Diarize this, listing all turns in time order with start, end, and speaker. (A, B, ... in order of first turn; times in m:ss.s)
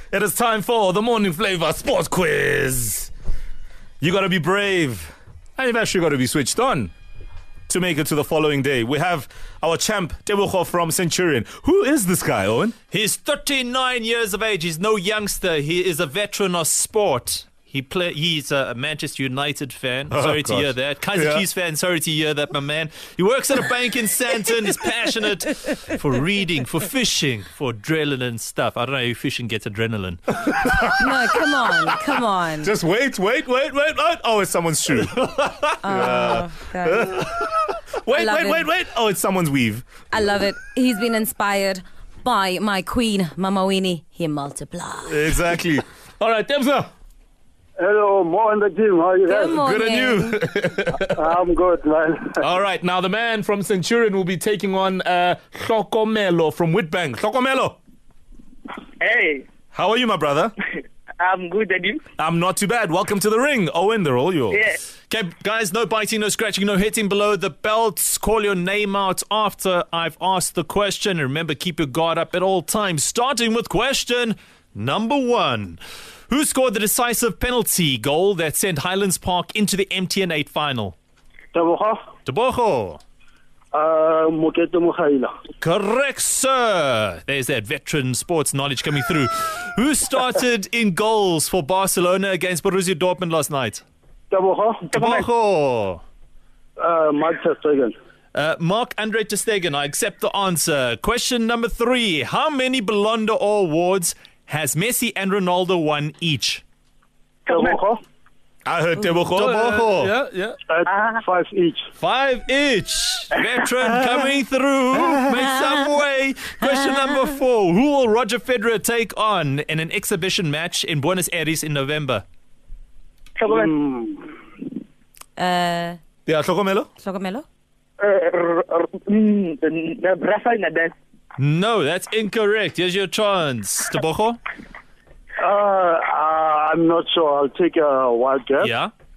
0:00.1-0:03.1 A
0:04.0-0:06.9 A
0:07.7-0:12.8 A
0:12.9-0:30.3 B
0:20.1-0:21.4 A
0:30.4-0:31.9 A
0:30.8-0:32.7 C
0:32.6-0:39.8 A
0:35.8-0:37.3 C
0:38.1-0:38.7 C
0:40.1-0:45.2 C
0:45.0-0:46.9 A
0:47.8-0:49.5 D
0:49.2-0:50.4 C
0:49.5-0:51.1 A
0:51.1-0:52.4 D
0:52.4-0:57.8 A
0:59.0-0:59.5 E
0:59.7-1:00.5 A
1:01.2-1:02.0 E
1:02.2-1:04.6 A
1:04.5-1:04.8 E
1:05.1-1:21.0 B
1:21.5-1:22.0 D
1:22.3-1:23.0 B
1:23.7-1:25.3 D
1:25.6-1:33.8 B
1:34.3-1:34.9 D
1:34.9-1:36.0 B
1:36.8-1:37.9 D
1:38.3-1:46.6 B
1:47.4-1:47.8 E
1:47.5-1:48.0 D
1:48.6-1:50.6 A
1:49.3-1:50.1 B
1:50.7-1:51.8 D
1:50.9-1:51.2 E
1:52.0-2:02.2 B
2:03.4-2:03.8 E
2:03.5-2:04.3 D
2:05.4-2:06.0 C
2:06.2-2:06.9 A
2:07.0-2:07.4 C
2:08.0-2:10.9 E
2:11.4-2:14.4 B
2:15.4-2:18.7 D
2:18.6-2:18.9 B